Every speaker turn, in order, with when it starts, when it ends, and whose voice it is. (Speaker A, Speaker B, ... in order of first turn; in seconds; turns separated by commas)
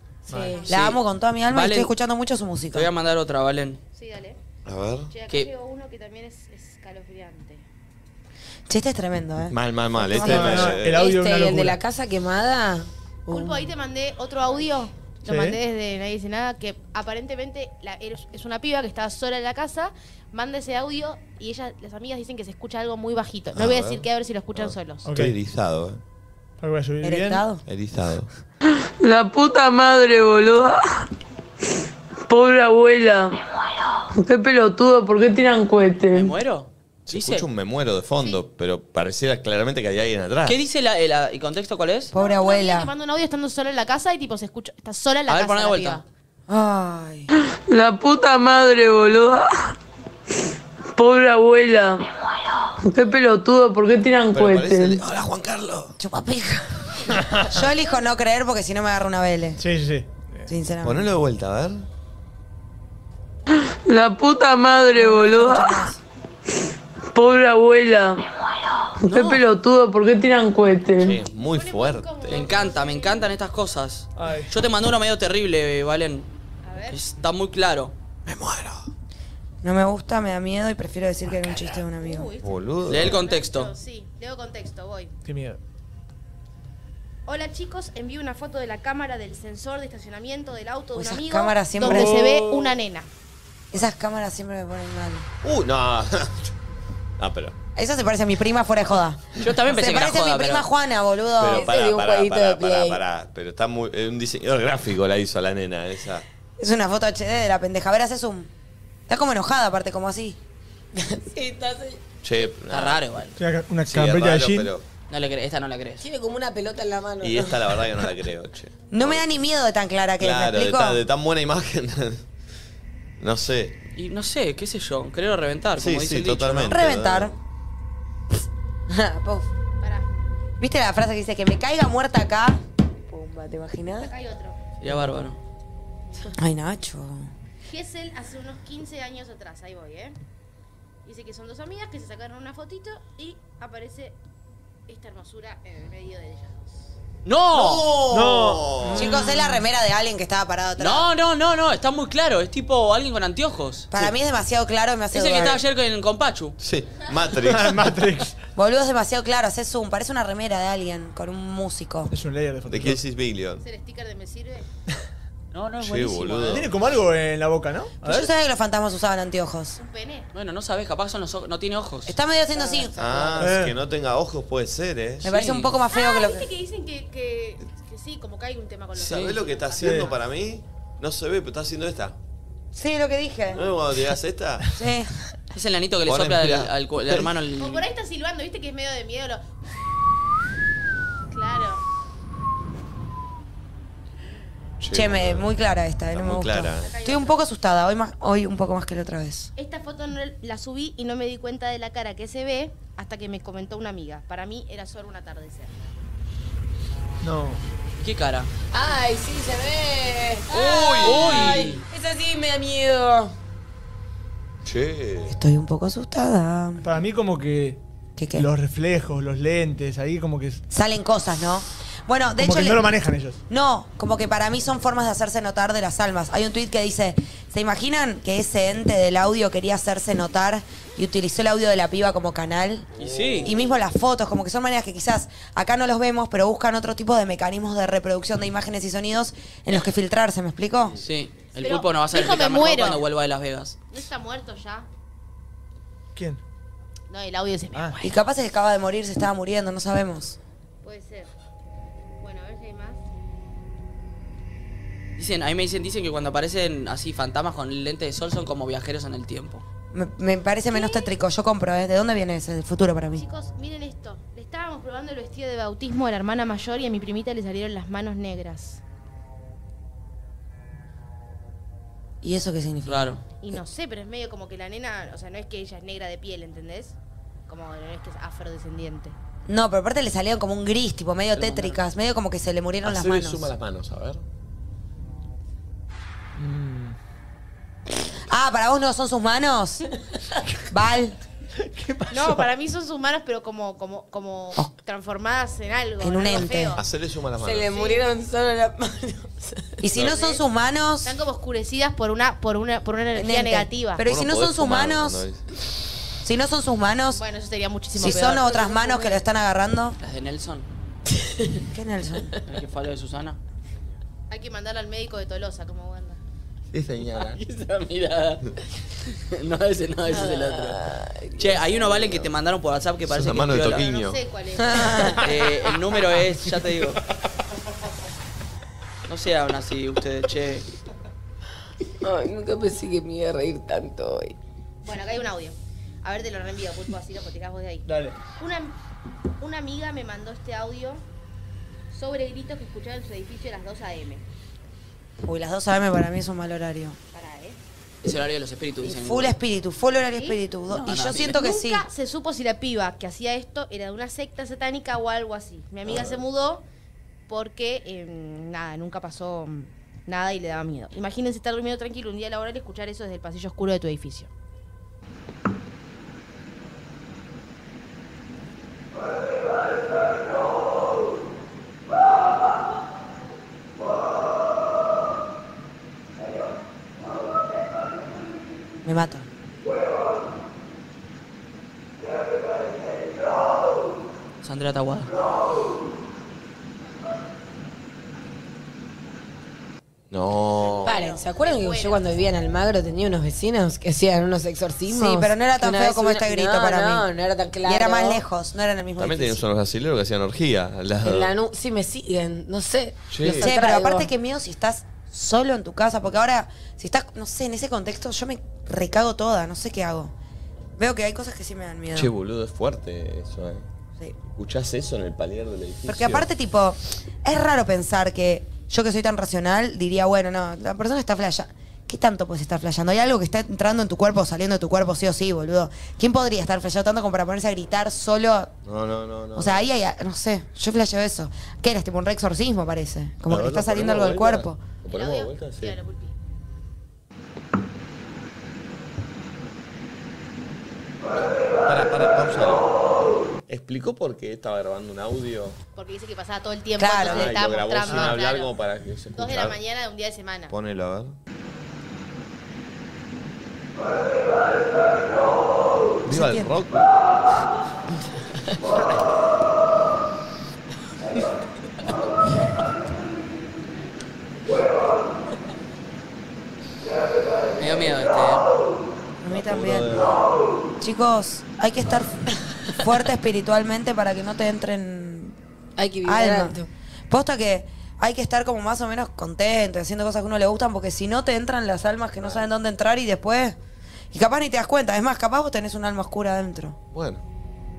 Speaker A: 0.3-0.6, Speaker B: 0.3-0.7, Speaker C: 0.7-2.9, Speaker D: 0.7-1.0, Speaker D: 1.5-1.9, Speaker D: 2.7-3.8, Speaker E: 3.9-4.4, Speaker F: 4.7-5.1, Speaker E: 5.1-7.7, Speaker C: 8.7-9.6, Speaker F: 9.5-11.1, Speaker B: 10.0-13.7, Speaker A: 10.1-11.8, Speaker E: 13.3-25.1, Speaker A: 15.3-15.6, Speaker F: 23.5-26.0, Speaker A: 25.0-25.4, Speaker A: 26.6-27.5, Speaker C: 27.0-27.6, Speaker F: 27.6-28.3, Speaker G: 29.0-30.7, Speaker G: 32.3-33.3, Speaker G: 34.2-36.3, Speaker D: 36.1-37.5, Speaker F: 37.1-40.6, Speaker D: 40.5-42.1, Speaker C: 42.1-42.9, Speaker E: 42.1-46.0, Speaker D: 45.3-46.0, Speaker C: 46.5-47.3, Speaker G: 47.7-49.4, Speaker G: 51.0-52.0, Speaker G: 52.9-55.0, Speaker F: 54.3-56.0, Speaker C: 56.0-59.6, Speaker A: 57.1-57.6, Speaker A: 59.6-60.5, Speaker C: 60.5-61.1, Speaker F: 60.8-61.9, Speaker G: 63.9-65.8, Speaker C: 64.9-66.0, Speaker G: 67.2-68.2, Speaker G: 69.1-71.1, Speaker D: 69.1-69.4, Speaker F: 71.0-72.5, Speaker E: 71.3-73.3, Speaker D: 72.3-76.3, Speaker A: 74.2-74.5, Speaker E: 76.6-77.0, Speaker D: 76.9-78.0, Speaker F: 78.3-78.8, Speaker C: 79.6-82.3, Speaker E: 82.0-85.1, Speaker F: 82.4-83.2, Speaker D: 82.9-83.7, Speaker A: 85.2-85.6, Speaker E: 87.3-93.1, Speaker C: 91.0-92.3, Speaker A: 91.8-92.8, Speaker C: 93.7-95.3, Speaker F: 95.4-96.5, Speaker F: 97.2-97.6, Speaker C: 97.8-101.7, Speaker D: 99.4-100.7, Speaker F: 101.4-106.2, Speaker B: 101.5-103.0, Speaker C: 106.6-108.5, Speaker C: 109.1-110.4, Speaker B: 110.9-112.0, Speaker F: 112.2-113.0, Speaker D: 112.7-113.4, Speaker A: 113.4-114.7, Speaker F: 113.9-114.8, Speaker D: 115.1-116.0, Speaker B: 116.0-118.0, Speaker F: 117.2-119.3, Speaker C: 118.9-121.0, Speaker F: 120.2-122.2, Speaker F: 123.2-123.8, Speaker D: 124.0-126.7, Speaker F: 125.8-127.3, Speaker C: 126.7-127.4, Speaker C: 128.9-129.5, Speaker E: 129.8-130.1, Speaker C: 130.6-134.1, Speaker E: 134.0-134.6, Speaker D: 134.8-135.4, Speaker C: 136.4-137.3, Speaker E: 137.7-140.2, Speaker E: 141.1-144.2, Speaker E: 144.9-146.9, Speaker D: 147.2-147.9, Speaker F: 147.5-149.2, Speaker A: 148.1-149.5, Speaker C: 148.9-151.1, Speaker D: 150.8-153.9, Speaker C: 153.9-155.6, Speaker D: 155.1-156.6, Speaker F: 156.6-158.0, Speaker A: 157.4-158.4, Speaker C: 158.6-162.1, Speaker A: 162.1-163.0, Speaker F: 162.7-163.6, Speaker E: 163.6-164.7, Speaker D: 165.5-166.6, Speaker F: 165.8-166.7, Speaker A: 166.5-168.3, Speaker C: 168.0-169.8, Speaker E: 169.8-170.3, Speaker D: 170.3-172.1, Speaker C: 172.1-173.0, Speaker B: 172.5-173.5, Speaker F: 173.0-175.2, Speaker A: 173.4-173.7, Speaker C: 175.2-176.5, Speaker D: 175.2-175.7, Speaker E: 175.9-180.2, Speaker D: 179.0-179.3, Speaker F: 179.1-182.2, Speaker A: 179.8-180.1, Speaker C: 182.7-183.7, Speaker F: 183.5-184.7, Speaker C: 184.8-185.1, Speaker D: 185.5-187.8, Speaker F: 186.1-187.3, Speaker E: 187.6-189.4, Speaker E: 191.3-191.8, Speaker F: 194.8-195.5, Speaker C: 194.9-199.5, Speaker F: 196.1-197.0, Speaker E: 196.8-197.4, Speaker E: 199.6-205.7, Speaker A: 207.2-207.6, Speaker D: 208.0-208.5, Speaker B: 208.7-213.3, Speaker F: 210.5-211.7, Speaker D: 211.0-211.8, Speaker F: 214.7-215.3, Speaker C: 215.3-216.9, Speaker A: 216.8-217.8, Speaker C: 218.2-218.5, Speaker A: 218.3-220.6, Speaker C: 220.7-223.0, Speaker A: 222.4-223.4, Speaker C: 223.5-232.9, Speaker F: 233.0-233.7, Speaker D: 233.0-233.5, Speaker C: 233.4-241.0, Speaker D: 241.0-243.8, Speaker E: 241.6-243.0, Speaker E: 243.9-244.9, Speaker A: 246.2-246.4, Speaker E: 247.1-248.2, Speaker C: 248.0-250.4, Speaker E: 250.8-251.3, Speaker E: 252.2-253.0, Speaker D: 255.2-259.6, Speaker C: 259.9-263.2, Speaker E: 260.7-261.1, Speaker E: 263.1-268.8, Speaker C: 272.2-273.6, Speaker D: 272.9-273.2, Speaker E: 273.4-277.0, Speaker E: 277.5-279.2, Speaker C: 279.5-283.5, Speaker F: 282.8-284.2, Speaker A: 286.4-287.0, Speaker C: 288.3-289.9, Speaker C: 290.7-291.2, Speaker A: 291.6-292.4, Speaker E: 292.1-296.8, Speaker C: 296.0-296.8, Speaker F: 296.8-297.7, Speaker B: 297.4-299.8, Speaker E: 297.7-298.1, Speaker C: 299.8-301.1, Speaker E: 299.9-300.4, Speaker E: 301.0-304.0, Speaker C: 303.1-305.2, Speaker F: 304.0-305.4, Speaker C: 306.2-307.2, Speaker E: 307.1-309.2, Speaker C: 307.9-310.0, Speaker D: 310.0-310.7, Speaker B: 311.2-311.6, Speaker C: 311.7-312.3, Speaker D: 312.5-313.4, Speaker E: 314.3-316.2, Speaker F: 316.7-317.4, Speaker D: 317.3-318.4, Speaker D: 319.3-320.8, Speaker B: 320.1-321.9, Speaker D: 321.4-323.9, Speaker F: 323.1-324.2, Speaker E: 323.8-325.4, Speaker C: 324.6-325.2, Speaker D: 325.2-327.0, Speaker D: 329.1-330.7, Speaker B: 332.0-334.4, Speaker E: 334.8-338.8, Speaker A: 337.9-338.2, Speaker E: 339.4-341.0, Speaker E: 341.9-344.2, Speaker C: 345.2-347.0, Speaker E: 347.1-347.6, Speaker D: 348.0-349.4, Speaker C: 348.8-351.9, Speaker E: 350.1-350.4, Speaker D: 350.7-351.4, Speaker E: 351.3-356.6, Speaker F: 355.9-356.2, Speaker E: 357.3-364.3, Speaker C: 378.8-379.3, Speaker D: 384.4-385.1, Speaker F: 390.1-391.0, Speaker E: 390.6-392.2, Speaker B: 390.9-398.2, Speaker C: 394.9-397.1, Speaker C: 397.6-399.4, Speaker F: 399.0-401.4, Speaker B: 401.0-404.1, Speaker F: 403.1-403.5, Speaker C: 403.3-410.1, Speaker C: 410.8-412.1, Speaker F: 411.9-413.7, Speaker F: 414.3-416.3, Speaker C: 415.9-428.5, Speaker F: 428.6-429.7, Speaker C: 429.4-434.6, Speaker F: 433.3-435.8, Speaker E: 434.9-436.1, Speaker F: 441.2-442.7, Speaker F: 443.5-445.6, Speaker E: 445.8-448.5, Speaker C: 446.8-447.4, Speaker F: 446.9-449.6, Speaker E: 449.1-450.6, Speaker F: 450.5-451.2, Speaker F: 456.1-456.9, Speaker C: 456.1-456.5, Speaker D: 467.6-468.4, Speaker C: 469.2-469.9, Speaker F: 469.3-470.1, Speaker C: 470.8-475.4, Speaker B: 475.8-476.7, Speaker C: 476.0-476.6, Speaker C: 477.1-483.6, Speaker C: 484.1-486.8, Speaker F: 486.9-487.2